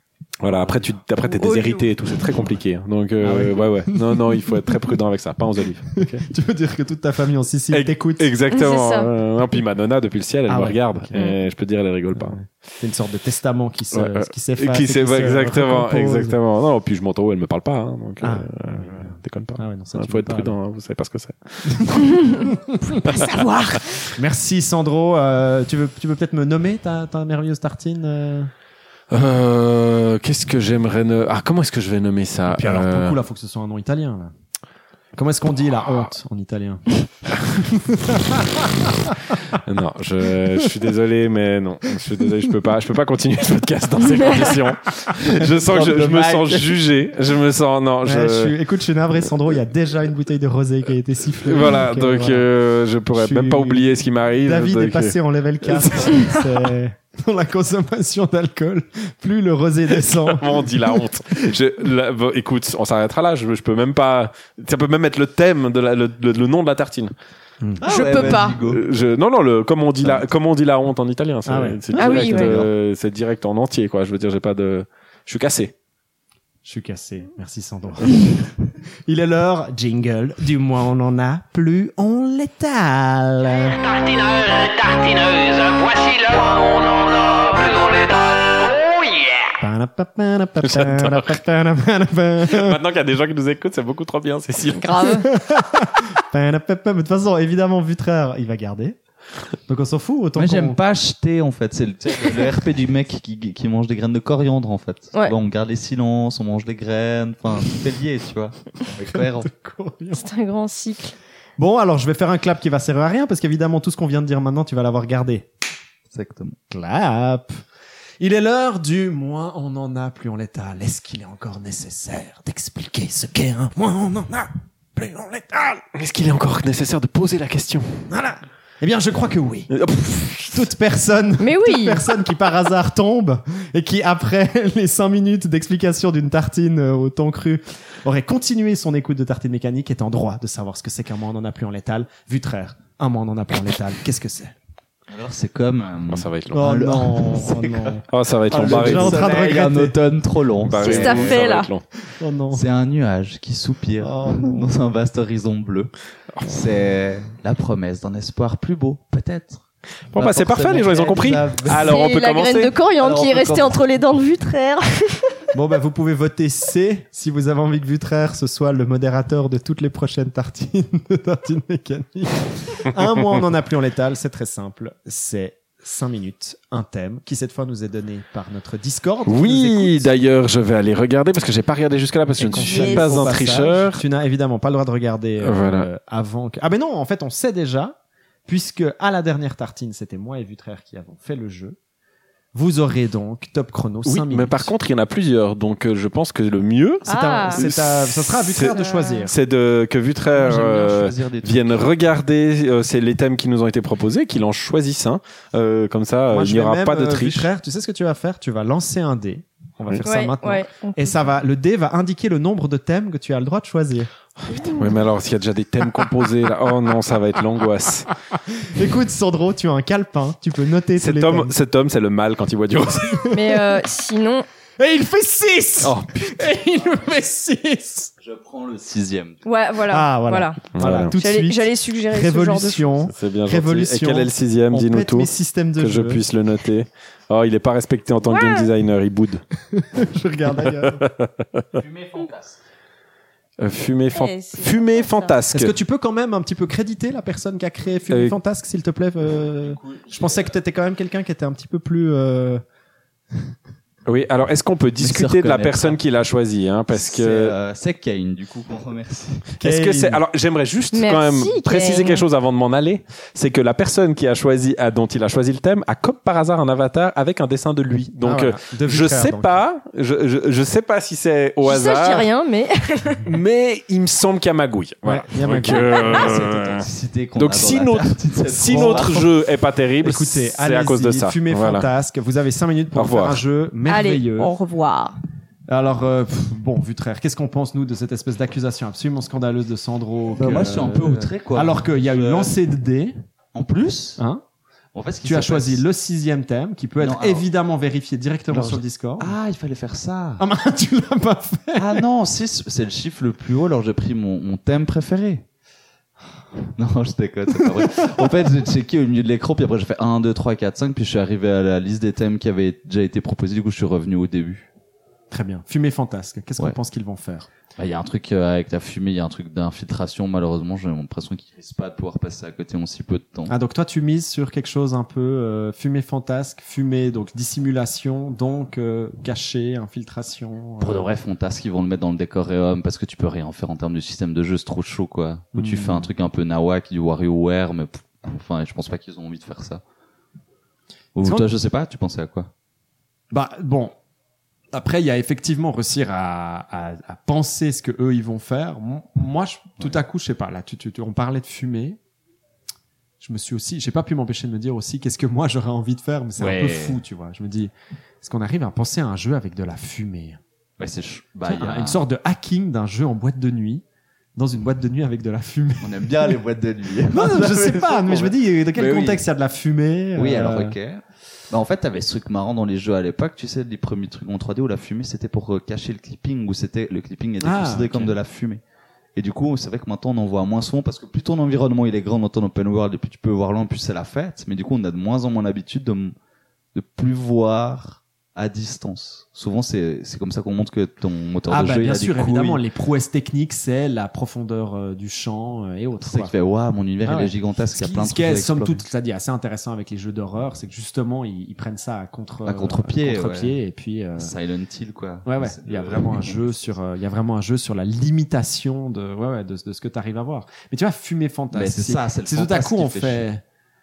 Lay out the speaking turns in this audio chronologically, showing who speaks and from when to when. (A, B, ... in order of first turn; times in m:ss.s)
0:00.4-0:06.2 A
0:00.5-0:00.9 B
0:01.3-0:01.9 C
0:03.2-0:05.0 B
0:06.0-0:08.3 B
0:07.7-0:12.4 A
0:08.5-0:09.1 C
0:10.5-0:11.3 B
0:11.2-0:11.4 C
0:12.1-0:16.4 B
0:13.9-0:23.9 A
0:18.2-0:20.6 B
0:21.7-0:23.0 B
0:23.0-0:23.9 C
0:24.2-0:28.5 B
0:29.1-0:33.2 A
0:32.5-0:34.3 B
0:35.2-0:39.6 B
0:39.5-0:48.6 A
0:45.3-0:46.8 D
0:48.0-0:52.5 B
0:51.4-0:56.5 A
0:53.1-1:01.0 B
1:00.1-1:07.1 A
1:07.8-1:08.8 D
1:07.8-1:08.6 C
1:08.2-1:15.7 A
1:11.4-1:12.4 B
1:11.9-1:12.7 D
1:12.0-1:12.6 C
1:16.6-1:18.5 B
1:19.1-1:23.8 B
1:23.9-1:29.4 E
1:29.6-1:32.8 B
1:30.6-1:31.4 A
1:32.5-1:35.0 A
1:34.7-1:35.3 C
1:35.2-1:39.0 B
1:39.7-1:40.8 B
1:40.4-1:49.5 D
1:49.1-1:50.3 B
1:50.1-1:51.2 C
1:51.6-1:55.5 B
1:56.1-1:56.6 D
1:56.7-1:57.6 B
1:58.2-2:05.8 B
2:05.9-2:08.1 A
2:08.1-2:09.7 B
2:09.7-2:10.7 A
2:10.4-2:24.6 B
2:11.4-2:12.1 C
2:25.1-2:31.6 D
2:26.1-2:26.6 A
2:26.5-2:30.0 B
2:28.1-2:29.4 A
2:30.6-2:31.8 A
2:30.8-2:31.7 C
2:32.2-2:32.7 B
2:32.5-2:42.0 D
2:34.0-2:34.7 B
2:40.1-2:42.7 A
2:41.7-2:45.4 C
2:43.0-2:43.8 D
2:45.5-3:00.1 B
2:59.3-3:04.0 A
3:02.4-3:11.8 B
3:02.6-3:03.2 C
3:05.4-3:05.9 A
3:12.5-3:14.7 B
3:14.1-3:27.5 A
3:17.0-3:19.3 B
3:17.1-3:17.6 C
3:18.7-3:19.2 C
3:20.3-3:22.1 D
3:26.3-3:34.1 B
3:30.0-3:31.2 C
3:34.5-3:35.0 C
3:34.7-3:38.1 A
3:38.3-3:41.5 B
3:41.0-3:43.3 A
3:43.0-3:43.6 B
3:43.3-3:44.5 C
3:44.8-3:48.1 B
3:45.8-3:46.1 A
3:48.2-3:49.4 D
3:49.4-3:50.6 C
3:49.9-3:56.2 B
3:50.8-3:51.1 A
3:51.2-3:52.9 C
3:53.1-3:59.4 A
3:58.2-3:58.7 C
3:59.7-4:01.0 B
4:00.6-4:01.7 A
4:01.7-4:02.6 D
4:03.6-4:05.7 A
4:04.1-4:05.4 C
4:05.5-4:12.6 B
4:08.1-4:08.4 A
4:09.6-4:10.5 D
4:14.1-4:17.6 A
4:15.0-4:16.0 D
4:16.9-4:19.5 D
4:19.6-4:20.2 B
4:19.6-4:32.3 A
4:20.9-4:22.2 C
4:28.2-4:29.6 B
4:31.6-4:33.2 C
4:33.3-4:36.8 A
4:35.0-4:36.5 B
4:35.7-4:36.1 C
4:36.0-4:39.3 D
4:37.4-4:41.9 A
4:38.7-4:39.2 B
4:40.0-4:44.5 B
4:43.0-4:43.4 A
4:43.9-4:45.2 C
4:45.7-4:53.2 B
4:50.4-4:52.5 D
4:53.5-4:54.2 D
4:54.2-4:54.4 B
4:54.9-4:55.8 D
4:55.2-4:59.3 B
4:57.0-4:57.5 D
4:58.5-5:00.4 D
5:00.4-5:02.0 B
5:01.8-5:05.5 D
5:06.6-5:14.7 D
5:07.6-5:08.1 B
5:15.3-5:17.5 B
5:17.8-5:23.6 D
5:23.5-5:31.1 B
5:30.8-5:39.8 D
5:35.5-5:36.1 B
5:41.2-5:42.5 D
5:41.2-5:41.5 B
5:43.3-5:44.0 B
5:44.7-5:52.0 B
5:53.2-6:00.4 B
5:56.4-5:57.0 D
6:00.8-6:02.0 D
6:01.5-6:03.8 B
6:04.4-6:06.4 B
6:05.8-6:09.2 D
6:07.1-6:10.8 B
6:10.2-6:18.6 D
6:17.4-6:18.2 B
6:19.2-6:26.2 D
6:26.8-6:32.6 D
6:31.5-6:36.3 B
6:36.0-6:38.9 D
6:37.0-6:44.3 B
6:42.4-6:43.6 D
6:44.2-6:46.8 D
6:45.3-6:53.4 B
6:51.5-6:53.3 D